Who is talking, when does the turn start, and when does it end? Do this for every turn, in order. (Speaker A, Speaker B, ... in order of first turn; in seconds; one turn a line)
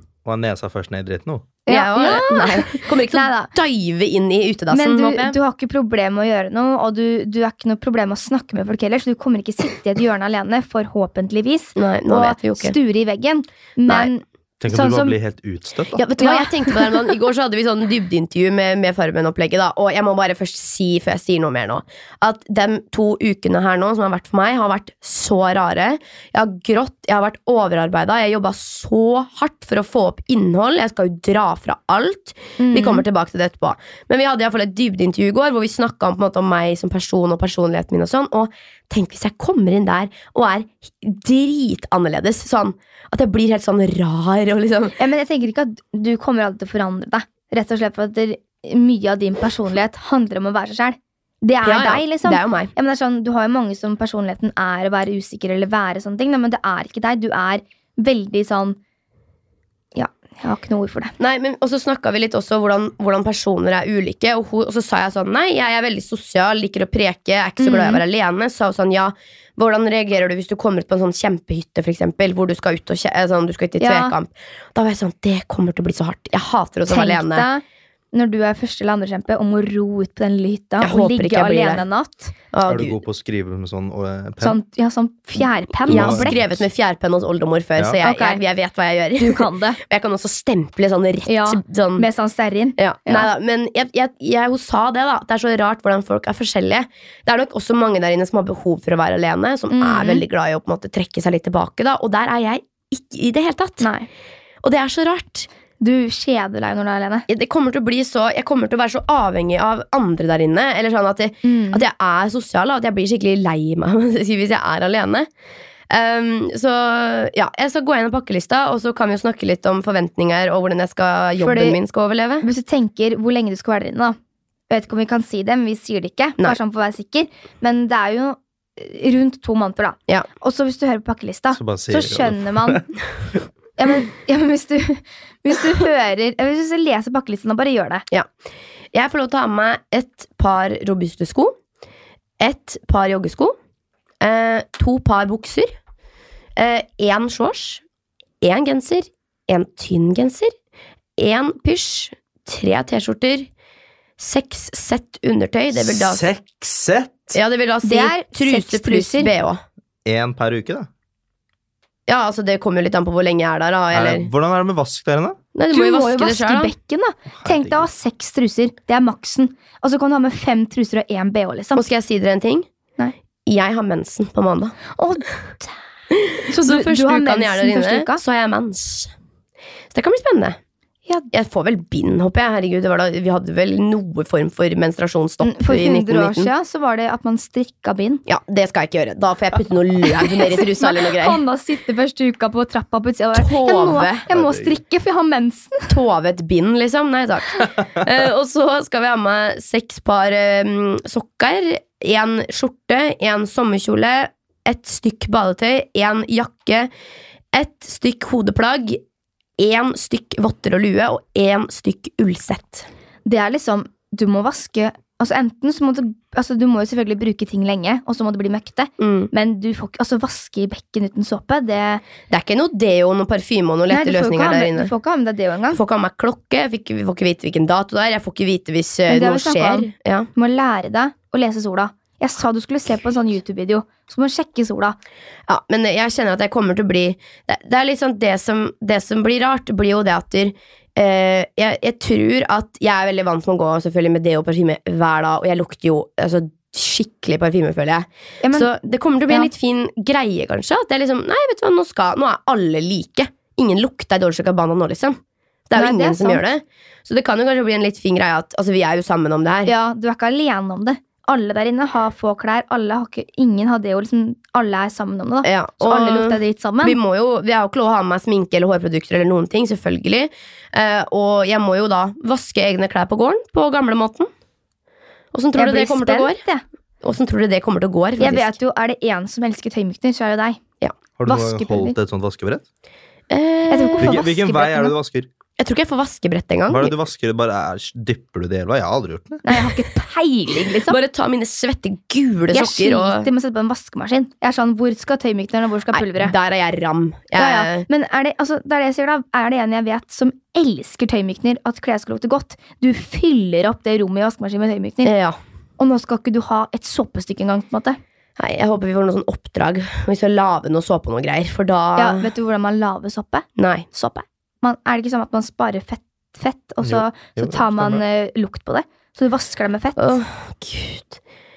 Speaker A: 0.2-1.5
Speaker B: 1.7-3.5
Speaker C: 1.7-5.4
Speaker B: 4.7-15.2
Speaker C: 11.8-12.8
Speaker A: 14.6-16.0
Speaker C: 16.0-45.0
Speaker B: 16.0-16.9
Speaker B: 32.6-33.0
Speaker B: 45.0-58.8
Speaker C: 51.6-52.7
Speaker B: 60.0-61.1
Speaker C: 61.2-77.5
Speaker B: 67.6-68.0
Speaker B: 73.8-74.2
Speaker B: 76.9-77.6
Speaker B: 78.1-82.3
Speaker C: 80.8-81.8
Speaker C: 82.5-83.0
Speaker A: 82.7-84.6
Speaker B: 84.4-86.4
Speaker A: 85.9-86.7
Speaker C: 85.9-92.1
Speaker B: 88.0-88.4
Speaker B: 89.2-89.8
Speaker B: 91.3-93.3
Speaker C: 92.8-103.9
Speaker B: 99.7-100.2
Speaker B: 103.8-104.1
Speaker C: 104.6-105.5
Speaker B: 105.8-107.3
Speaker C: 107.3-115.3
Speaker B: 111.4-111.8
Speaker C: 115.9-122.5
Speaker B: 121.4-121.8
Speaker B: 122.4-124.2
Speaker B: 124.7-132.9
Speaker A: 131.5-133.4
Speaker B: 133.8-138.1
Speaker C: 138.9-141.5
Speaker C: 142.4-143.5
Speaker C: 144.2-145.7
Speaker C: 146.6-147.8
Speaker C: 148.4-150.5
Speaker C: 151.2-153.5
Speaker C: 154.2-156.3
Speaker A: 155.7-157.4
Speaker C: 157.3-159.6
Speaker B: 157.8-159.3
Speaker A: 160.1-160.9
Speaker C: 162.1-164.3
Speaker A: 163.9-165.4
Speaker C: 165.6-166.7
Speaker B: 165.7-171.8
Speaker A: 167.4-167.9
Speaker C: 171.8-172.7
Speaker C: 173.5-174.8
Speaker B: 174.9-175.7
Speaker C: 176.1-179.1
Speaker B: 176.5-178.2
Speaker C: 179.9-180.6
Speaker C: 181.3-186.5
Speaker B: 185.4-188.2
Speaker C: 188.3-191.4
Speaker B: 190.1-195.9
Speaker C: 193.3-194.2
Speaker A: 194.3-194.8
Speaker C: 195.9-206.9
Speaker C: 207.5-209.0
Speaker C: 209.6-212.9
Speaker B: 213.3-222.0
Speaker C: 219.0-219.3
Speaker C: 222.3-224.9
Speaker B: 223.9-225.8
Speaker C: 225.7-230.3
Speaker B: 229.1-235.0
Speaker C: 235.5-255.2
Speaker B: 248.4-248.7
Speaker C: 255.7-259.7
Speaker B: 255.7-256.4
Speaker B: 259.7-267.0
Speaker C: 265.4-274.3
Speaker C: 275.3-276.4
Speaker B: 275.6-276.6
Speaker C: 277.0-278.5
Speaker B: 278.2-280.6
Speaker A: 281.2-282.6
Speaker B: 281.3-282.0
Speaker C: 283.3-284.2
Speaker B: 283.7-284.9
Speaker A: 284.0-285.3
Speaker C: 285.6-286.9
Speaker A: 286.7-289.4
Speaker B: 289.4-291.0
Speaker C: 290.9-293.3
Speaker B: 292.5-296.3
Speaker C: 295.9-297.9
Speaker B: 297.4-305.1
Speaker C: 305.0-305.4
Speaker B: 305.8-308.0
Speaker C: 308.4-312.3
Speaker B: 312.0-320.2
Speaker C: 313.6-313.9
Speaker A: 316.8-318.0
Speaker C: 320.0-321.2